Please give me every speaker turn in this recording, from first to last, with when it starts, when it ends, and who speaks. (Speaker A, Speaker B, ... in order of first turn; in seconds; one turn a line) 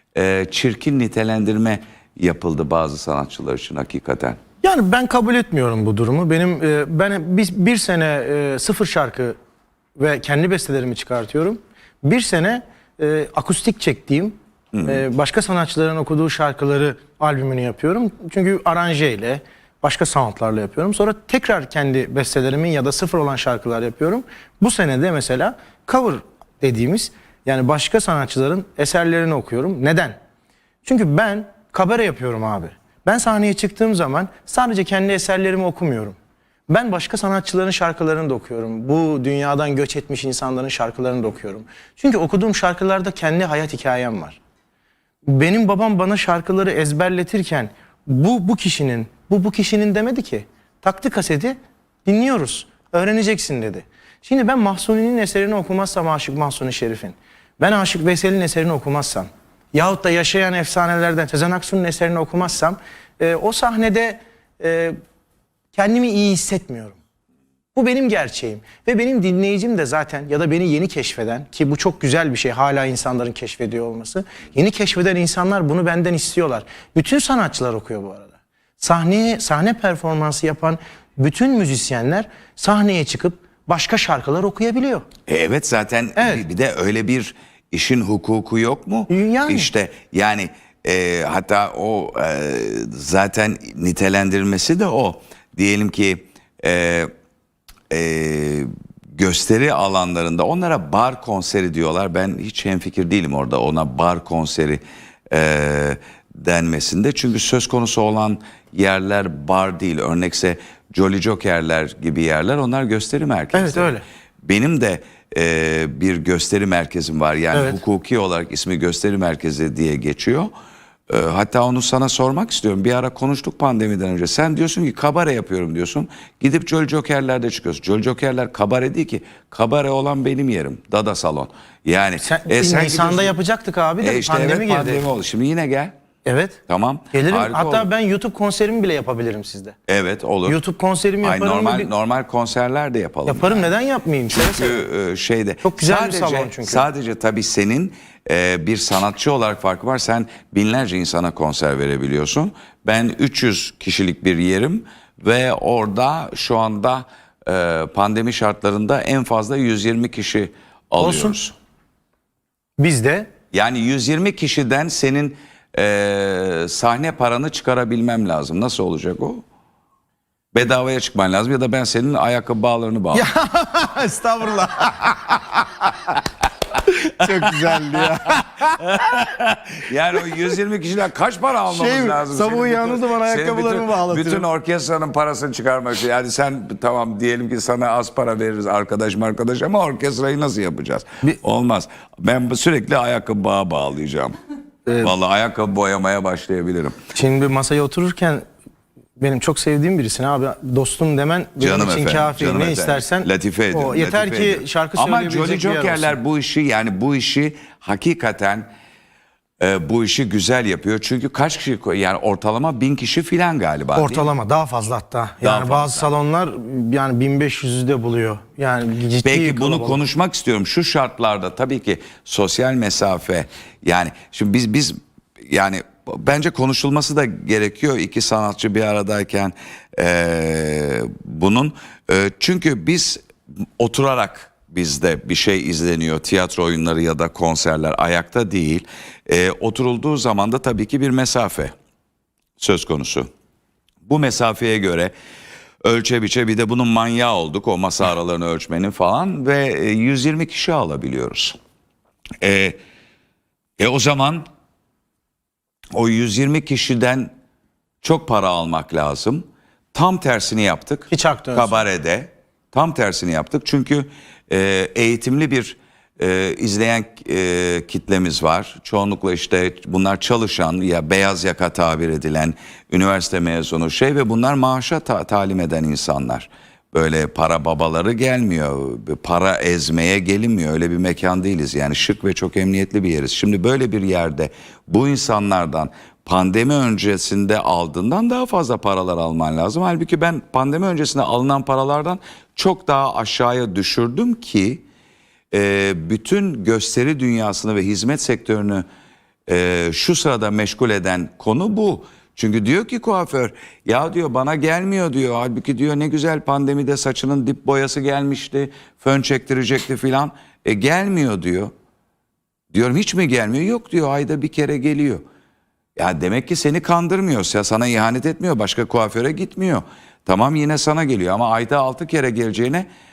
Speaker A: 0.1-4.4
Speaker B: 4.6-9.3
Speaker B: 10.0-30.1
Speaker A: 14.7-15.0
Speaker B: 30.8-36.1
Speaker B: 36.7-44.4
Speaker B: 45.3-65.0
Speaker B: 65.7-67.0
Speaker B: 67.7-85.0
Speaker A: 85.3-97.1
Speaker B: 86.2-86.4
Speaker B: 89.1-89.7
Speaker A: 97.9-120.5
Speaker B: 113.5-114.0
Speaker B: 117.5-117.8
Speaker A: 121.1-133.3
Speaker B: 132.2-135.1
Speaker A: 134.0-135.9
Speaker B: 136.2-136.6
Speaker A: 136.7-137.9
Speaker B: 137.1-139.7
Speaker A: 139.9-140.6
Speaker B: 140.4-141.9
Speaker A: 141.2-143.7
Speaker B: 143.2-144.8
Speaker A: 144.3-161.5
Speaker B: 145.6-146.8
Speaker B: 161.0-161.4
Speaker B: 162.8-163.3
Speaker A: 163.5-169.4
Speaker A: 170.5-173.3
Speaker B: 173.1-175.9
Speaker B: 177.2-178.7
Speaker A: 177.2-194.3
Speaker B: 181.7-184.4
Speaker B: 194.8-195.1
Speaker A: 195.0-197.0
Speaker B: 197.1-198.4
Speaker B: 199.2-206.2
Speaker A: 201.6-208.7
Speaker A: 209.6-214.2
Speaker B: 213.9-220.0
Speaker A: 215.4-216.1
Speaker A: 219.2-225.0
Speaker A: 225.5-233.2
Speaker A: 233.8-241.7
Speaker A: 242.6-243.3
Speaker A: 244.0-245.1
Speaker A: 245.8-251.6
Speaker A: 252.4-252.8
Speaker A: 253.8-254.5
Speaker A: 255.9-257.3
Speaker A: 258.0-294.8
Speaker B: 261.1-261.8
Speaker A: 295.5-298.8
Speaker A: 299.5-311.7
Speaker A: 312.7-315.2
Speaker A: 316.0-322.9